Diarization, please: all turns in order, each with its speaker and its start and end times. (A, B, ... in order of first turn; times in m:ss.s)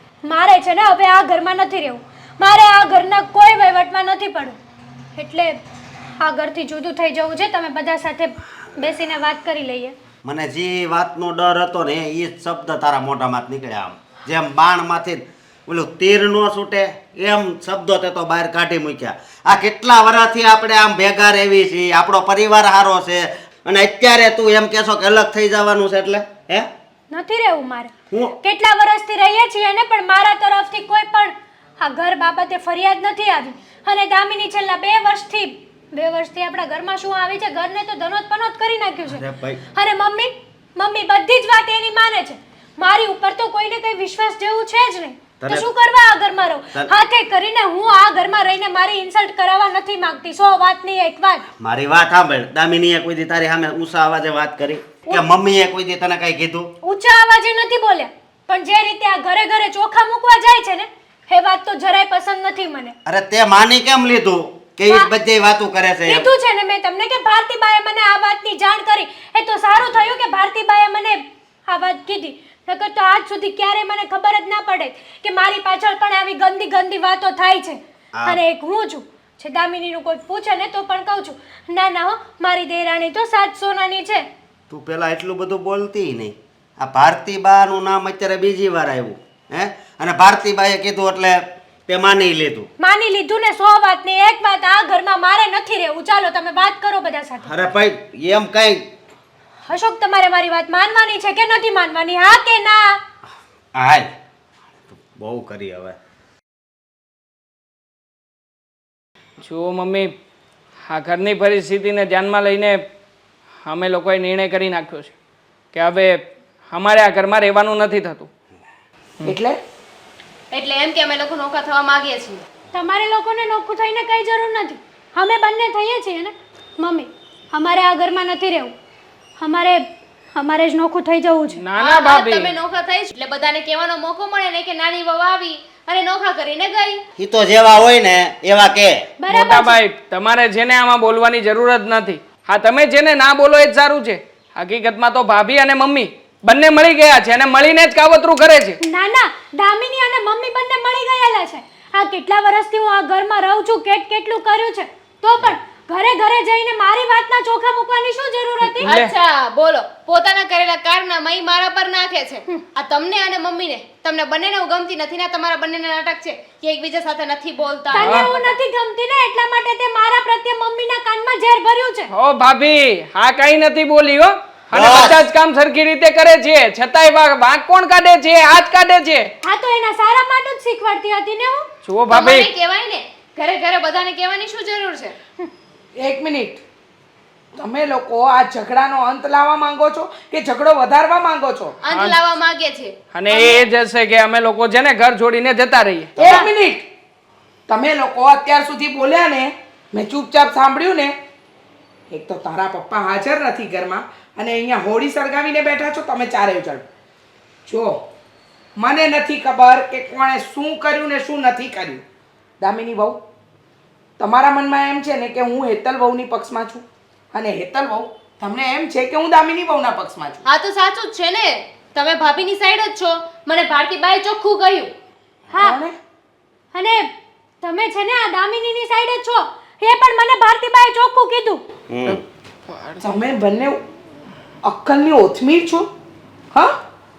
0:00.2-0:04.6 A
0:05.2-0:05.6 A
0:06.2-0:10.0 A
0:10.2-0:26.7 B
0:27.1-0:51.4 A
0:28.1-0:28.4 B
0:39.1-0:39.6 B
0:45.4-0:45.7 B
0:51.6-0:56.7 B
0:56.8-1:03.0 A
1:03.1-1:06.3 B
1:06.1-1:24.3 A
1:18.2-1:18.4 B
1:24.7-1:32.7 B
1:32.8-1:37.5 A
1:37.5-1:38.9 B
1:39.7-1:43.0 A
1:43.8-1:44.1 B
1:44.9-1:46.0 B
1:49.4-1:50.1 C
1:50.8-1:52.8 C
1:53.6-1:55.2 C
1:55.7-1:58.3 C
1:59.2-1:59.6 D
2:00.5-2:02.4 E
2:02.7-2:08.8 A
2:09.4-2:11.6 A
2:11.6-2:12.5 C
2:11.8-2:17.0 E
2:17.2-2:19.1 B
2:19.2-2:19.8 A
2:19.3-2:28.8 C
2:28.8-2:38.9 A
2:38.7-2:39.1 C
2:38.8-2:48.5 E
2:47.9-2:52.1 A
2:48.0-2:48.3 C
2:52.1-2:59.3 C
2:54.7-2:55.2 B
2:59.4-3:01.7 A
3:01.8-3:02.5 C
3:02.1-3:05.2 E
3:06.0-3:06.6 D
3:07.6-3:11.8 D
3:11.8-3:13.6 E
3:11.9-3:12.2 C
3:13.1-3:16.2 C
3:16.2-3:16.9 D
3:16.2-3:16.5 E
3:17.7-3:21.2 D
3:22.1-3:26.8 D
3:27.7-3:28.0 D
3:28.8-3:32.0 D
3:32.6-3:33.2 D
3:34.2-3:40.4 D
3:40.4-3:44.9 E
3:45.5-3:45.8 A
3:45.6-3:46.0 D
3:46.7-3:47.1 A
3:47.6-3:51.6 A
3:51.9-3:52.2 B
3:52.1-3:53.0 C
3:53.0-3:53.8 D
3:54.6-3:55.9 D
3:56.5-3:56.8 D